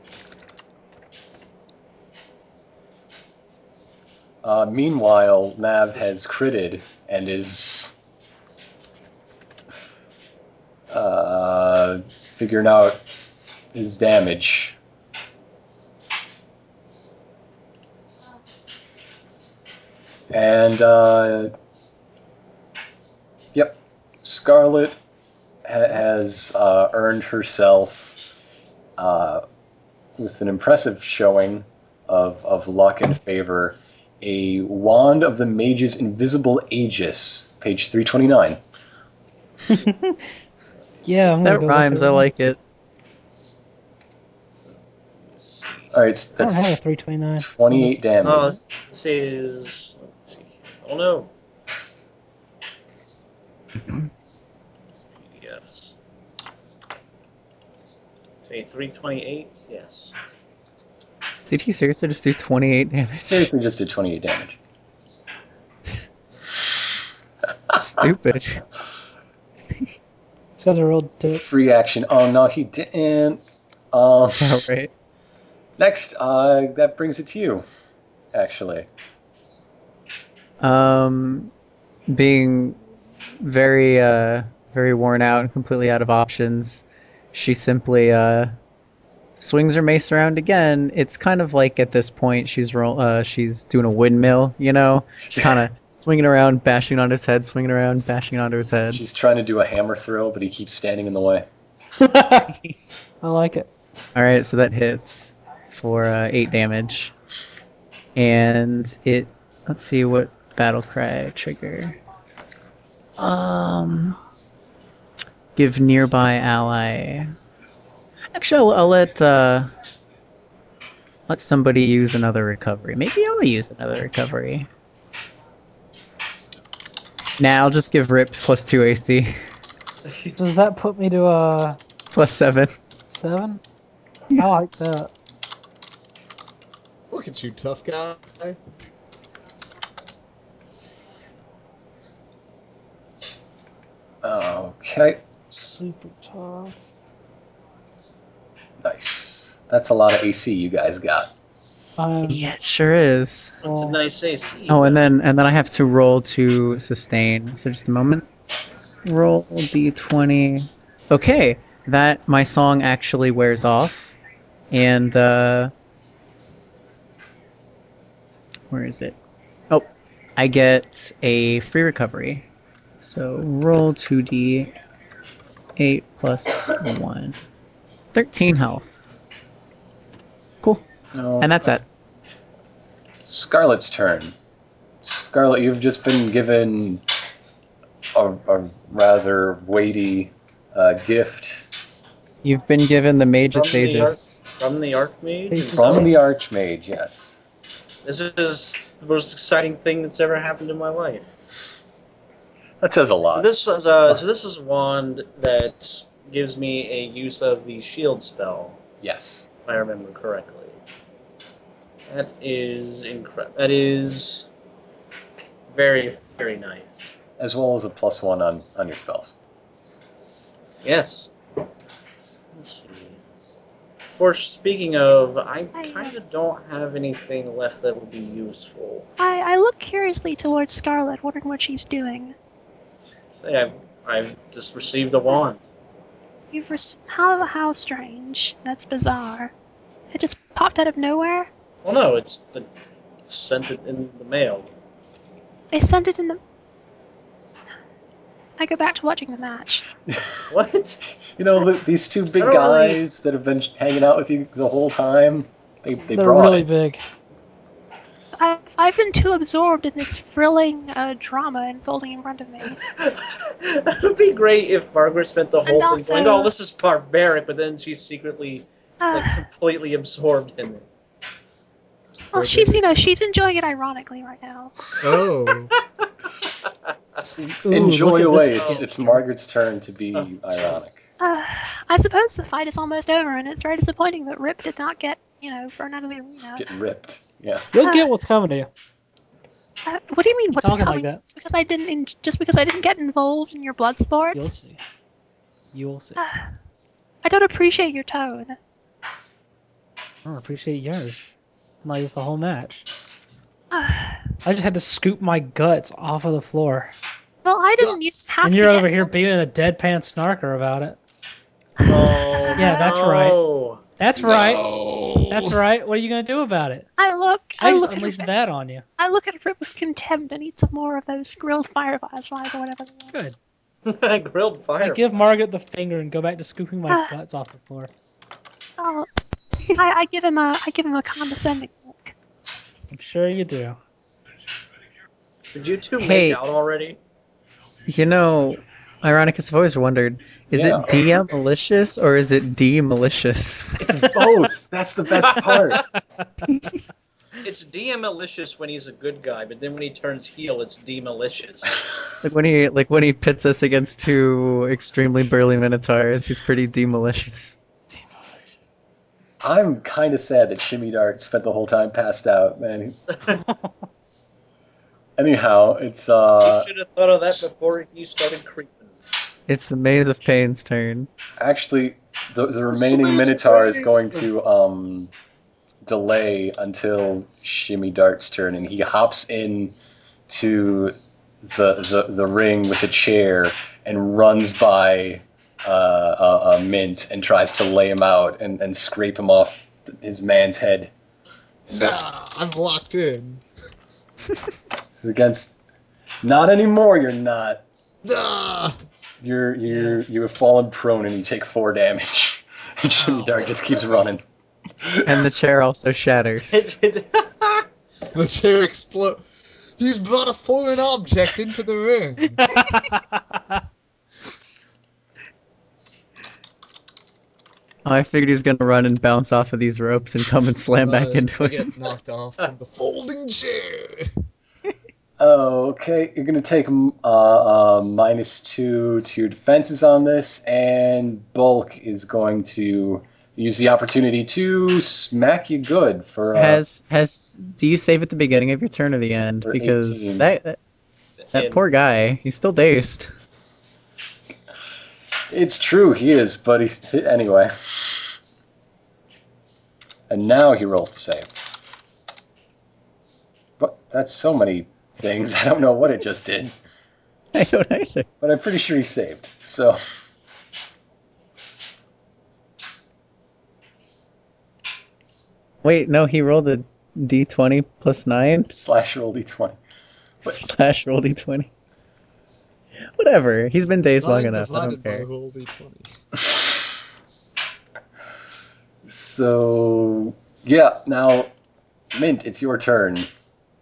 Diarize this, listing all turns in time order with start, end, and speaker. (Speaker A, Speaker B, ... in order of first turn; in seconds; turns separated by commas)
Speaker A: 4.4-8.0, Speaker A: 10.9-13.0, Speaker A: 13.7-14.8, Speaker A: 20.3-21.5, Speaker A: 23.5-25.0, Speaker A: 25.6-28.2, Speaker A: 29.0-29.4, Speaker A: 30.2-38.6, Speaker B: 39.7-40.2, Speaker C: 41.0-41.3, Speaker B: 41.0-42.3, Speaker D: 41.4-42.6, Speaker C: 45.3-45.9, Speaker A: 45.9-46.7, Speaker B: 46.4-48.0, Speaker A: 47.4-48.5, Speaker C: 48.2-51.3, Speaker C: 55.1-56.0, Speaker C: 58.5-60.1, Speaker D: 61.5-63.5, Speaker A: 63.2-64.6, Speaker D: 67.7-68.6, Speaker B: 70.6-71.4, Speaker A: 71.3-73.4, Speaker A: 73.9-74.5, Speaker D: 74.4-74.9, Speaker A: 75.8-77.6, Speaker A: 78.3-78.9, Speaker D: 80.6-81.5, Speaker D: 82.1-82.8, Speaker D: 83.4-88.5, Speaker D: 89.4-99.0, Speaker A: 98.9-101.5, Speaker B: 102.0-102.5, Speaker B: 103.2-103.7, Speaker D: 104.1-107.1, Speaker D: 108.2-112.0, Speaker D: 113.2-114.2, Speaker D: 115.5-117.3, Speaker D: 118.3-119.7, Speaker D: 121.3-124.7, Speaker D: 127.4-129.3, Speaker C: 130.1-130.3, Speaker B: 130.3-131.8, Speaker D: 132.1-132.8, Speaker B: 133.1-133.6, Speaker B: 134.3-135.1, Speaker E: 137.1-138.6, Speaker A: 144.2-145.2, Speaker B: 145.5-146.8, Speaker A: 148.8-151.3, Speaker B: 152.0-152.5, Speaker D: 152.3-153.6, Speaker C: 153.6-155.0, Speaker B: 153.7-154.0, Speaker D: 154.7-158.3, Speaker D: 159.1-164.2, Speaker D: 164.7-165.7, Speaker D: 168.7-169.2, Speaker D: 170.4-172.5, Speaker D: 173.0-174.7, Speaker D: 175.8-177.4, Speaker D: 178.1-178.9, Speaker A: 181.1-181.6, Speaker D: 181.4-181.8, Speaker A: 183.2-184.3, Speaker A: 185.0-187.0, Speaker A: 188.1-191.7, Speaker D: 192.4-194.4, Speaker C: 193.5-196.1, Speaker B: 195.5-196.2, Speaker A: 195.7-197.4, Speaker C: 198.0-201.3, Speaker A: 202.8-203.5, Speaker C: 203.3-208.8, Speaker A: 209.0-209.5, Speaker C: 209.7-210.8, Speaker C: 212.1-214.4, Speaker C: 215.7-217.2, Speaker A: 217.4-219.3, Speaker C: 220.8-221.3, Speaker C: 222.5-223.2, Speaker C: 224.1-229.1, Speaker F: 225.7-226.1, Speaker F: 229.2-232.3, Speaker C: 233.3-235.6, Speaker F: 236.5-239.5, Speaker F: 240.1-241.5, Speaker C: 241.8-242.7, Speaker C: 243.3-244.7, Speaker F: 245.7-246.4, Speaker F: 248.6-249.9, Speaker C: 250.5-251.1, Speaker A: 251.3-256.7, Speaker C: 252.4-253.0, Speaker B: 256.1-257.0, Speaker F: 258.4-262.8, Speaker C: 262.9-270.9, Speaker F: 265.6-266.5, Speaker F: 269.0-269.4, Speaker F: 272.3-274.7, Speaker E: 272.3-273.0, Speaker E: 275.0-275.7, Speaker B: 277.6-279.2, Speaker A: 277.7-281.0, Speaker C: 278.5-278.9, Speaker C: 280.1-280.9, Speaker F: 281.2-286.6, Speaker A: 286.6-287.7, Speaker B: 287.7-288.7, Speaker F: 287.8-288.1, Speaker F: 289.9-294.5, Speaker B: 290.5-291.2, Speaker B: 294.3-294.8, Speaker B: 295.7-296.2, Speaker F: 296.2-296.5, Speaker F: 297.2-298.6, Speaker B: 300.2-301.2, Speaker B: 301.8-302.9, Speaker F: 303.7-304.3, Speaker B: 304.4-306.9, Speaker F: 307.4-309.1, Speaker E: 307.8-308.3, Speaker B: 308.4-311.0, Speaker F: 311.8-313.0, Speaker C: 311.9-313.8, Speaker B: 312.6-313.4, Speaker B: 314.0-314.6, Speaker E: 314.2-315.5, Speaker B: 315.3-316.9, Speaker F: 317.0-318.3, Speaker B: 317.6-318.8, Speaker F: 319.0-323.1, Speaker C: 323.9-325.2, Speaker B: 324.8-327.9, Speaker F: 326.9-327.1, Speaker F: 328.8-329.1, Speaker F: 329.7-332.1, Speaker B: 332.9-333.8, Speaker C: 335.5-337.0, Speaker D: 336.0-336.4, Speaker D: 337.9-344.0, Speaker A: 340.5-341.1, Speaker A: 343.8-345.8, Speaker C: 347.4-351.8, Speaker D: 352.2-357.6, Speaker A: 359.4-363.0, Speaker C: 363.1-363.4, Speaker B: 363.5-363.7, Speaker A: 365.2-366.6, Speaker C: 366.4-369.0, Speaker D: 369.5-371.1, Speaker A: 371.4-375.1, Speaker C: 372.8-374.0, Speaker A: 375.8-379.7, Speaker A: 380.3-390.9, Speaker A: 391.6-392.0, Speaker E: 391.7-393.4, Speaker A: 395.0-395.6, Speaker A: 396.2-397.6, Speaker E: 398.0-398.8, Speaker A: 399.2-404.2, Speaker E: 403.0-403.4, Speaker D: 405.0-406.7, Speaker C: 406.5-407.6, Speaker E: 408.1-412.4, Speaker B: 412.4-413.4, Speaker D: 417.8-421.7, Speaker E: 420.8-424.1, Speaker A: 425.2-436.6, Speaker D: 436.3-440.6, Speaker A: 439.4-440.3, Speaker C: 441.3-441.6, Speaker D: 441.3-443.1, Speaker A: 445.3-447.8, Speaker A: 450.1-451.3, Speaker A: 453.6-456.5, Speaker D: 457.3-458.1, Speaker A: 458.2-459.8, Speaker D: 465.6-468.6, Speaker A: 468.5-469.6, Speaker D: 470.2-471.5, Speaker D: 472.9-475.0, Speaker E: 474.0-475.9, Speaker A: 478.9-481.3, Speaker A: 481.9-483.1